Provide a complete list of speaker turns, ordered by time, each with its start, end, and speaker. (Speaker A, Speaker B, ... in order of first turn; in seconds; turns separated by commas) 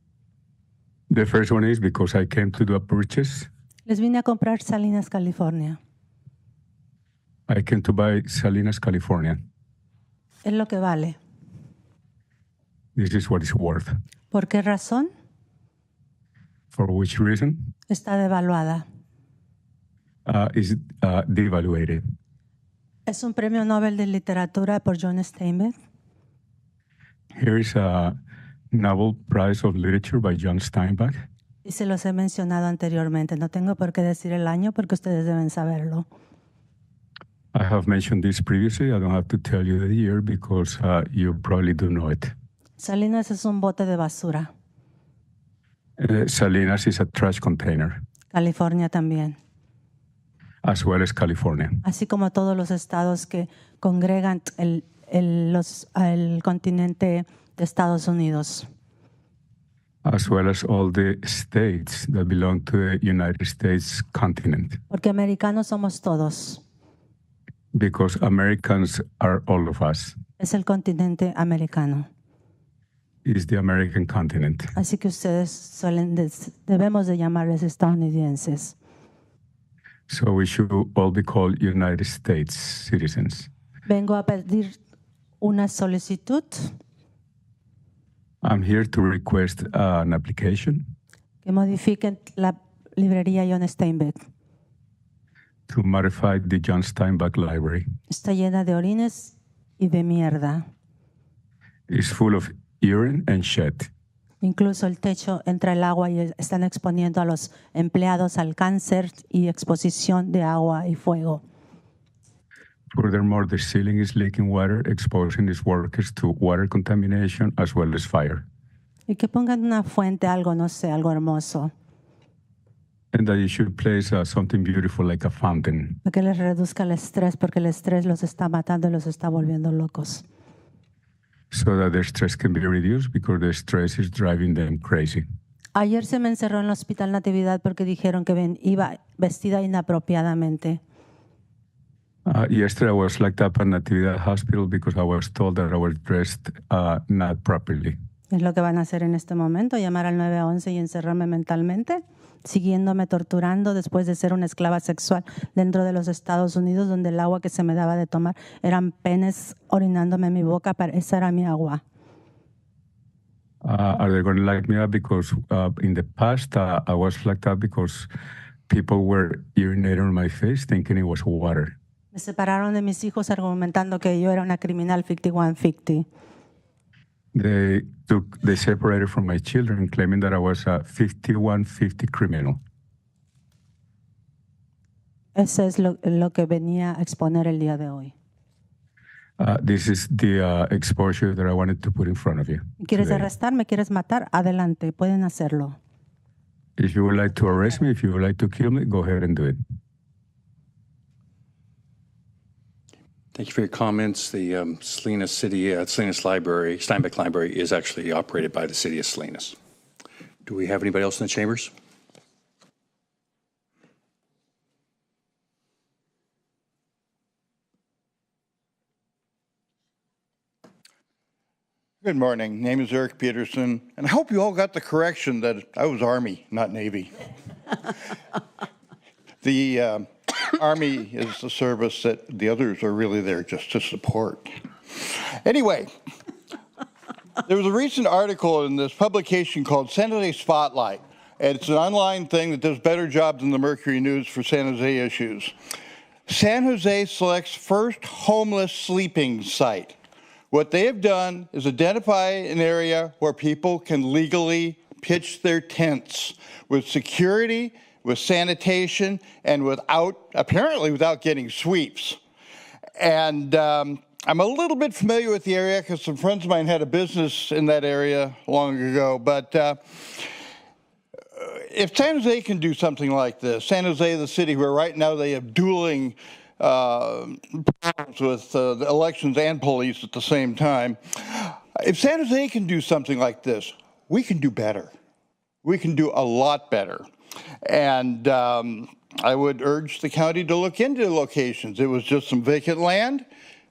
Speaker A: 1.1-3.5, Speaker B: 3.9-5.8, Speaker A: 7.5-9.4, Speaker B: 10.4-11.2, Speaker A: 12.9-13.9, Speaker B: 14.3-15.1, Speaker A: 16.7-17.7, Speaker B: 17.9-18.8, Speaker A: 20.2-22.0, Speaker B: 23.1-25.7, Speaker A: 27.4-28.1, Speaker A: 28.7-31.2, Speaker B: 31.6-36.0, Speaker A: 37.5-42.3, Speaker B: 42.8-44.5, Speaker A: 46.0-48.0, Speaker B: 48.3-49.4, Speaker A: 50.6-51.8, Speaker B: 51.8-58.7, Speaker A: 60.0-64.8, Speaker B: 64.9-66.6, Speaker A: 67.7-70.1, Speaker B: 70.4-72.1, Speaker A: 73.2-74.7, Speaker B: 74.7-78.7, Speaker A: 80.1-83.5, Speaker B: 83.8-84.8, Speaker B: 85.4-86.7, Speaker A: 88.4-90.8, Speaker B: 91.4-94.2, Speaker A: 95.7-97.8, Speaker B: 98.1-100.6, Speaker A: 101.9-103.9, Speaker B: 104.4-111.4, Speaker A: 112.9-118.4, Speaker B: 119.1-121.7, Speaker A: 123.1-126.0, Speaker B: 126.0-130.2, Speaker A: 131.5-135.2, Speaker B: 135.7-140.8, Speaker A: 142.2-147.9, Speaker B: 148.3-161.8, Speaker A: 163.6-168.1, Speaker A: 168.7-171.7, Speaker B: 172.1-176.1, Speaker A: 177.3-182.6, Speaker B: 185.3-188.1, Speaker A: 189.4-193.3, Speaker B: 192.8-195.8, Speaker A: 196.8-199.6, Speaker C: 203.3-209.6, Speaker C: 210.4-211.7, Speaker D: 222.0-227.1, Speaker D: 229.4-235.9, Speaker D: 237.4-245.5, Speaker D: 246.3-249.9, Speaker D: 250.5-262.2, Speaker D: 263.0-270.3, Speaker D: 271.3-284.9, Speaker D: 285.6-287.0, Speaker D: 287.6-293.2